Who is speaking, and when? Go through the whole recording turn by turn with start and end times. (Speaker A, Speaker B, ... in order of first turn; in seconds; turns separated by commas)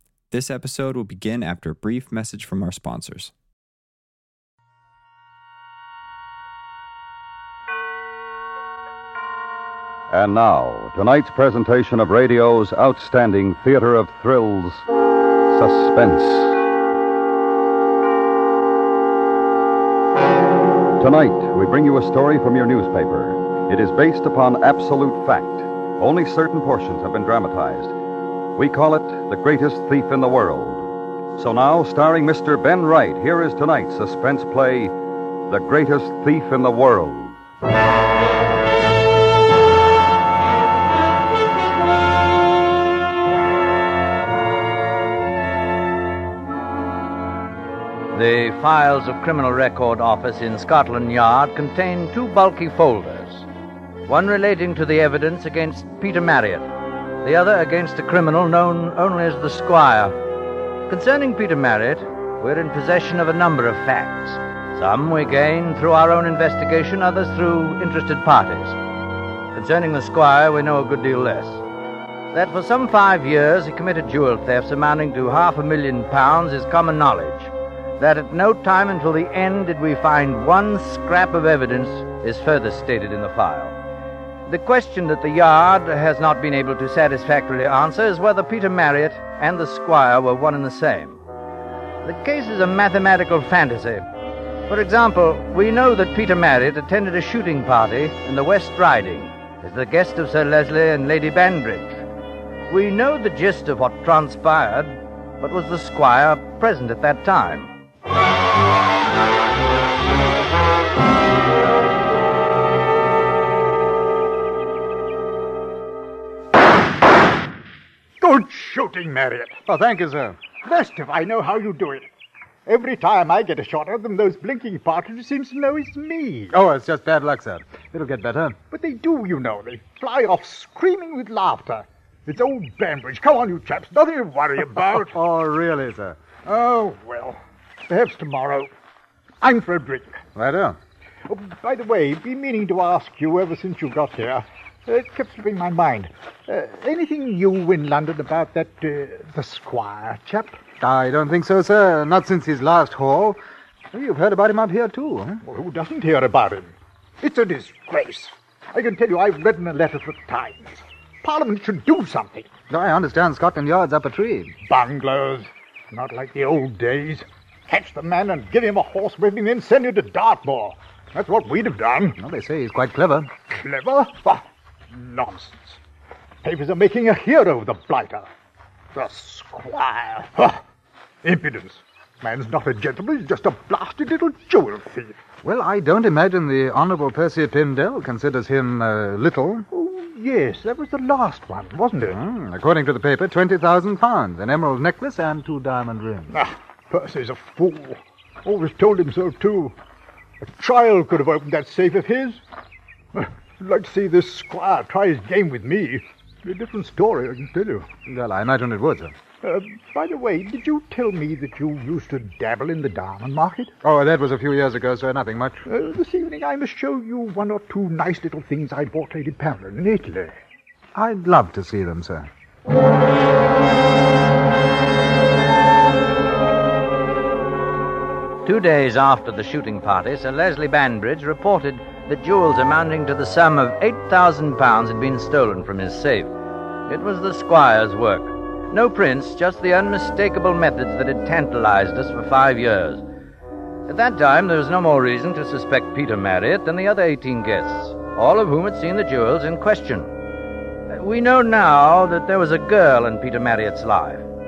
Speaker A: 0.3-3.3, Speaker B: 10.1-14.8, Speaker B: 15.5-16.6, Speaker B: 21.0-27.9, Speaker B: 28.6-30.8, Speaker B: 31.3-34.9, Speaker B: 35.5-37.4, Speaker C: 48.1-53.5, Speaker C: 54.1-56.7, Speaker C: 57.2-60.1, Speaker C: 60.9-68.8, Speaker C: 69.5-71.6, Speaker C: 72.3-83.8, Speaker C: 84.5-91.2, Speaker C: 92.0-94.0, Speaker C: 94.7-102.0, Speaker C: 102.7-107.7, Speaker D: 118.2-119.6, Speaker E: 119.7-120.4, Speaker D: 120.6-122.1, Speaker D: 122.7-126.5, Speaker E: 126.5-128.6, Speaker D: 128.7-135.1, Speaker E: 134.9-136.3, Speaker D: 136.4-138.7, Speaker D: 139.4-140.2, Speaker E: 140.3-140.8, Speaker D: 141.2-150.6, Speaker E: 150.8-153.4, Speaker E: 153.9-155.4, Speaker D: 155.4-162.5, Speaker E: 162.7-164.6, Speaker D: 164.6-172.2, Speaker E: 172.2-173.3, Speaker D: 173.5-175.8, Speaker D: 176.4-178.3, Speaker D: 178.9-180.6, Speaker D: 181.2-185.2, Speaker E: 185.4-189.7, Speaker D: 189.7-192.2, Speaker E: 192.1-196.4, Speaker D: 196.3-199.7, Speaker D: 200.4-202.4, Speaker D: 203.1-207.9, Speaker E: 208.1-209.1, Speaker D: 209.4-213.7, Speaker E: 213.8-215.6, Speaker D: 215.7-220.3, Speaker E: 220.9-222.3, Speaker C: 228.4-236.3, Speaker C: 236.9-243.1, Speaker C: 243.9-250.1, Speaker C: 250.9-254.2